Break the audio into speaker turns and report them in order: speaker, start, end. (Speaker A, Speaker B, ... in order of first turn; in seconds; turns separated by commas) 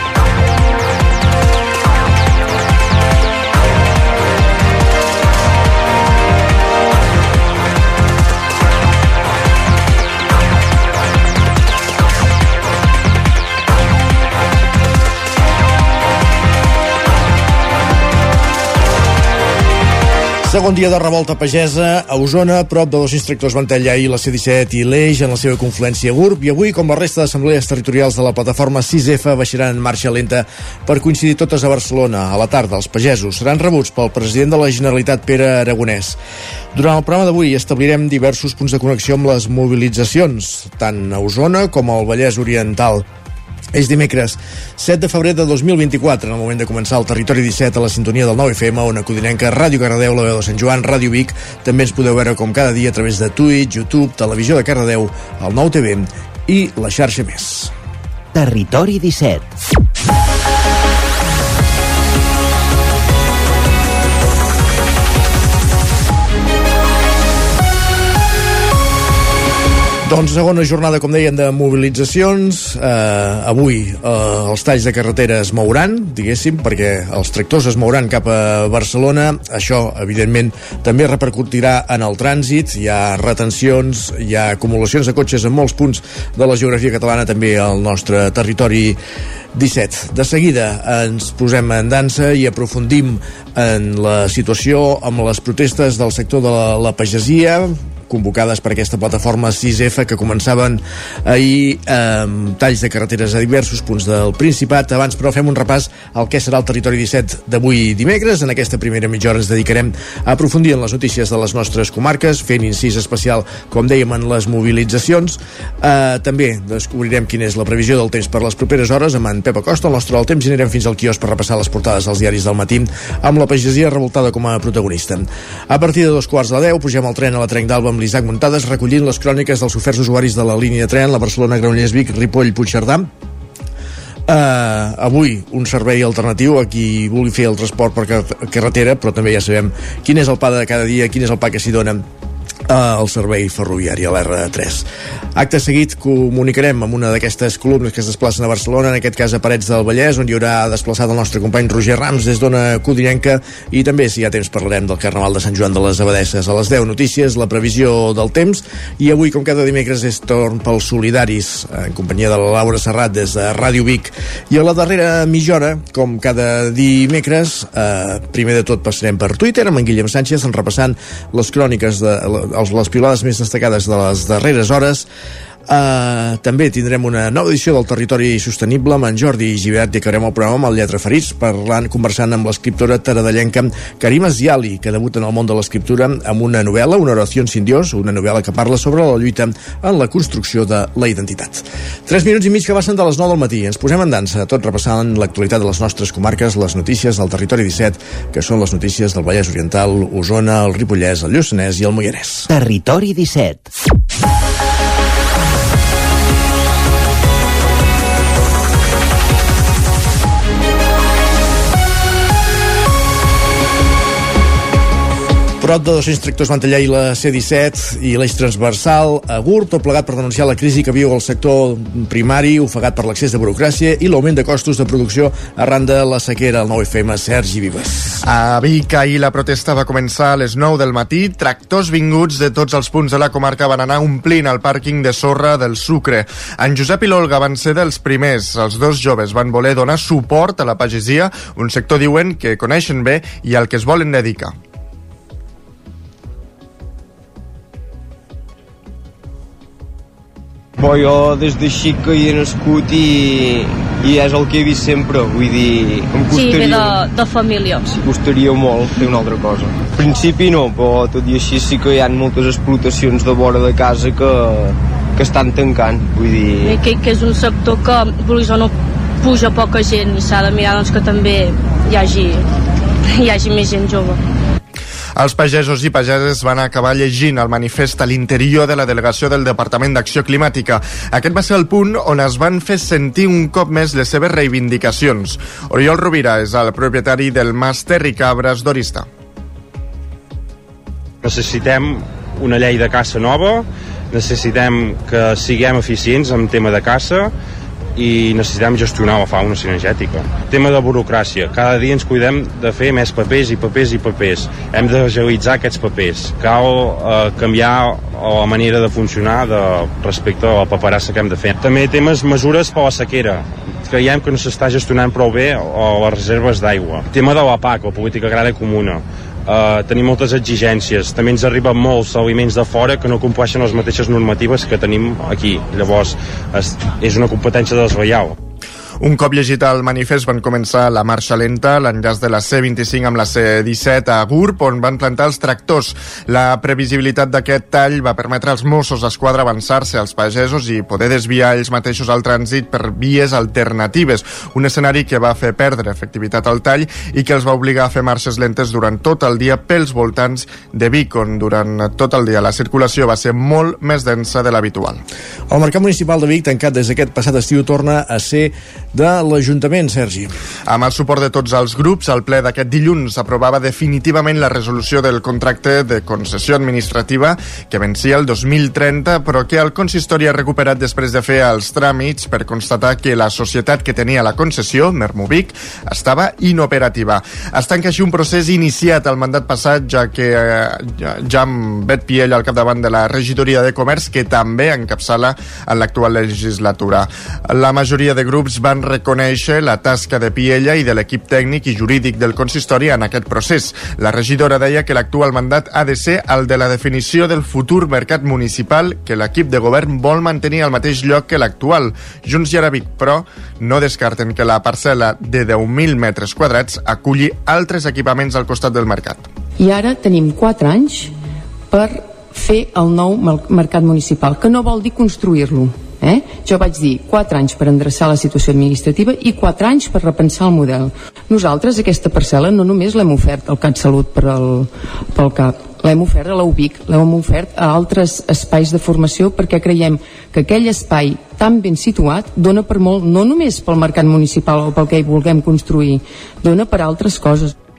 Speaker A: 20.4-36.2, Speaker A: 36.7-43.0, Speaker A: 43.7-57.7, Speaker B: 58.3-59.4, Speaker A: 70.0-89.0, Speaker A: 89.5-133.1, Speaker A: 134.3-142.0, Speaker A: 142.7-144.8, Speaker A: 145.3-175.1, Speaker A: 175.7-202.5, Speaker B: 202.5-203.7, Speaker A: 215.6-228.2, Speaker C: 228.2-244.5, Speaker D: 250.8-257.0, Speaker E: 256.3-257.9, Speaker D: 257.9-266.8, Speaker E: 266.6-272.4, Speaker E: 273.1-274.2, Speaker C: 275.1-289.1, Speaker F: 291.2-297.3, Speaker F: 297.9-328.3, Speaker C: 329.0-355.0, Speaker A: 355.5-360.3, Speaker C: 360.7-409.3, Speaker G: 409.6-411.1, Speaker G: 411.7-437.5